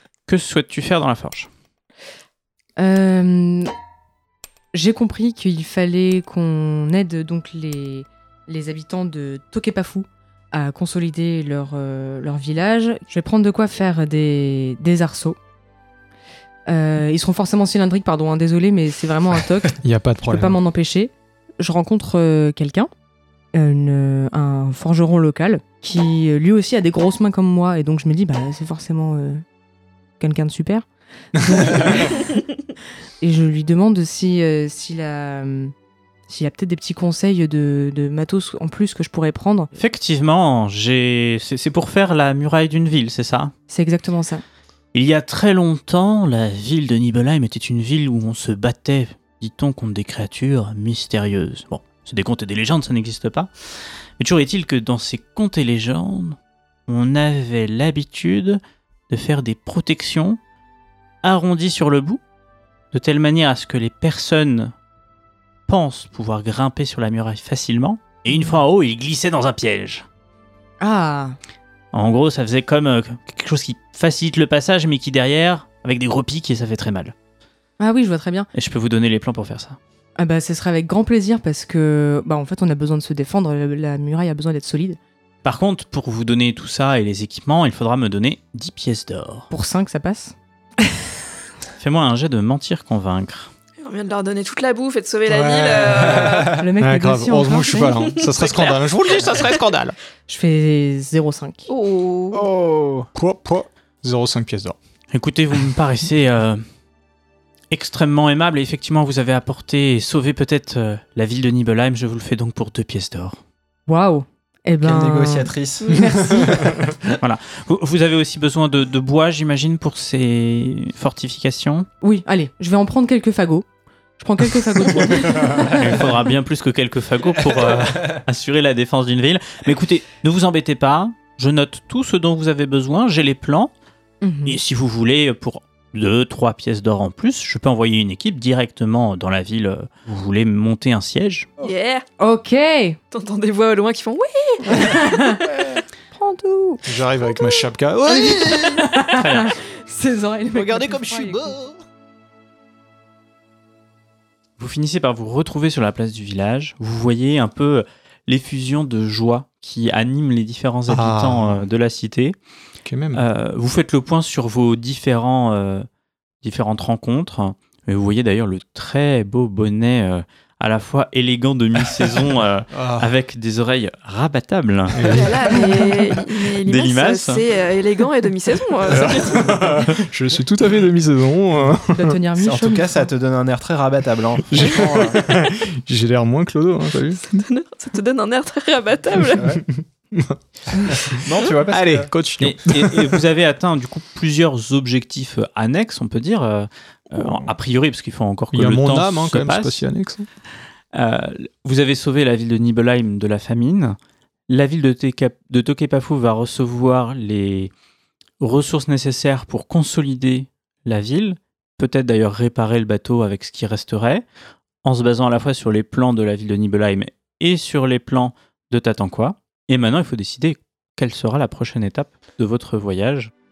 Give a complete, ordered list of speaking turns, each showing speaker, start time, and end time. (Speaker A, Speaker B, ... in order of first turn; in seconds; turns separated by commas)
Speaker A: 0.3-1.5, Speaker B: 2.8-3.7, Speaker B: 4.7-15.4, Speaker B: 16.6-22.9, Speaker C: 19.8-20.6, Speaker B: 23.5-29.4, Speaker B: 30.2-32.3, Speaker C: 31.6-32.0, Speaker B: 33.2-35.7, Speaker B: 36.3-39.7, Speaker A: 39.7-43.5, Speaker B: 43.7-44.4, Speaker A: 44.9-53.5, Speaker A: 54.2-60.4, Speaker A: 61.2-62.2, Speaker A: 62.9-64.7, Speaker A: 65.7-70.0, Speaker B: 68.3-68.5, Speaker B: 70.8-71.4, Speaker A: 71.9-77.1, Speaker B: 77.8-78.5, Speaker A: 78.5-79.8, Speaker B: 80.2-85.0, Speaker A: 85.4-89.5, Speaker B: 89.5-91.0, Speaker A: 91.8-93.5, Speaker D: 93.8-96.6, Speaker C: 95.3-100.0, Speaker E: 96.2-96.5, Speaker B: 96.5-98.1, Speaker D: 98.1-98.8, Speaker B: 100.3-101.7, Speaker D: 101.7-102.4, Speaker E: 102.3-103.1, Speaker C: 103.1-104.8, Speaker A: 105.1-106.6, Speaker A: 107.7-113.4, Speaker B: 113.9-116.7, Speaker E: 114.8-117.2, Speaker C: 116.6-116.9, Speaker A: 117.2-121.9, Speaker B: 122.0-123.7, Speaker B: 124.2-125.8, Speaker A: 125.6-133.7, Speaker E: 127.7-128.2, Speaker B: 134.2-134.6, Speaker A: 134.4-141.5, Speaker D: 141.6-142.0, Speaker B: 142.2-143.0, Speaker D: 143.1-145.7, Speaker B: 144.7-145.5, Speaker B: 146.1-146.8, Speaker C: 146.8-148.9, Speaker B: 148.1-151.6, Speaker A: 148.9-149.5, Speaker C: 150.5-151.7, Speaker A: 154.6-162.3, Speaker C: 160.9-161.7, Speaker C: 162.8-163.2, Speaker A: 163.1-165.9, Speaker A: 166.4-175.2, Speaker C: 172.7-173.1, Speaker C: 174.9-175.9, Speaker D: 175.0-179.9, Speaker A: 176.4-177.4, Speaker C: 178.9-182.2, Speaker B: 181.9-183.1, Speaker E: 182.3-185.2, Speaker C: 184.5-187.4, Speaker D: 187.2-189.5, Speaker E: 189.3-189.6, Speaker C: 189.5-193.2, Speaker E: 191.0-192.1, Speaker A: 192.4-199.8, Speaker C: 197.1-197.5, Speaker C: 198.5-200.3, Speaker A: 200.9-203.9, Speaker A: 204.5-207.7, Speaker A: 208.4-214.2, Speaker A: 214.8-223.3